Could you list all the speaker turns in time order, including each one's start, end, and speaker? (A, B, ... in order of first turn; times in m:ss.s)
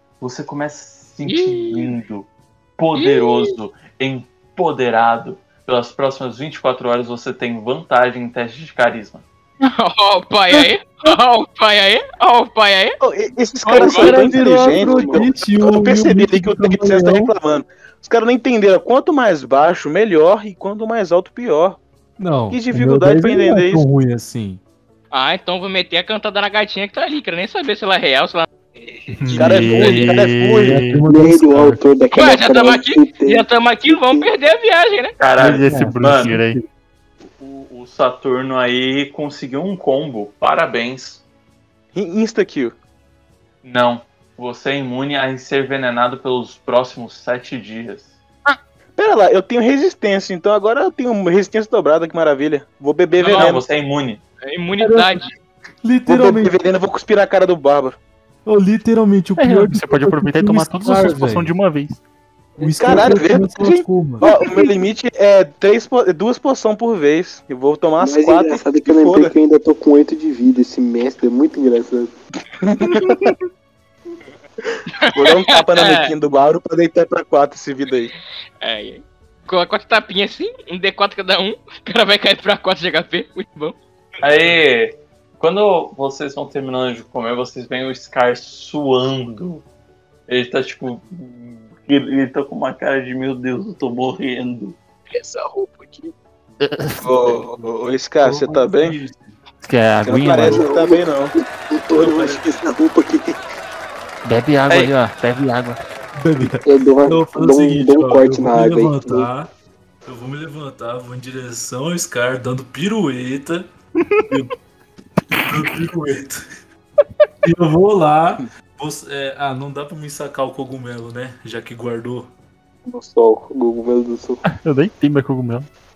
0:00.2-0:09.2 A
0:01.2-0:01.9 B
0:03.0-0:03.5 B
0:09.6-0:13.0 B
0:13.0-0:21.8 C
0:13.6-0:14.1 B
0:13.8-0:17.3 D
0:14.1-0:15.3 E
0:22.2-0:24.6 D
0:22.5-0:23.8 C
0:25.1-0:28.5 B
0:28.8-0:29.1 E
0:29.1-0:31.8 D
0:29.3-0:31.0 F
0:29.3-0:30.8 C
0:31.0-0:34.2 E
0:32.1-0:35.2 B
0:35.2-0:36.4 A
0:35.4-0:36.6 F
0:37.4-0:41.2 A
0:41.9-0:42.7 C
0:43.6-0:48.2 A
0:49.0-0:53.6 C
0:53.2-0:54.2 A
0:53.2-0:53.5 B
0:54.4-0:55.3 B
0:54.8-0:55.2 D
0:55.8-0:56.5 D
0:56.1-0:58.0 C
0:58.4-1:01.5 D
0:59.4-1:02.0 F
1:02.6-1:04.3 D
1:02.6-1:03.2 E
1:02.7-1:09.3 C
1:08.0-1:12.1 E
1:12.6-1:13.3 C
1:15.0-1:16.1 B
1:15.1-1:18.1 C
1:18.6-1:23.8 B
1:24.2-1:29.6 A
1:30.3-1:34.8 A
1:35.1-1:36.1 E
1:36.6-1:37.3 F
1:37.0-1:39.0 C
1:38.2-1:39.4 D
1:39.6-1:40.6 F
1:40.0-1:41.3 C
1:40.4-1:41.1 E
1:41.7-1:43.4 E
1:41.9-1:42.4 D
1:44.2-1:45.8 F
1:46.2-1:49.5 D
1:46.6-1:49.3 E
1:50.0-1:53.7 D
1:54.3-1:54.5 D
1:55.4-1:56.4 D
1:57.4-2:02.3 D
2:02.8-2:04.4 E
2:04.4-2:05.7 F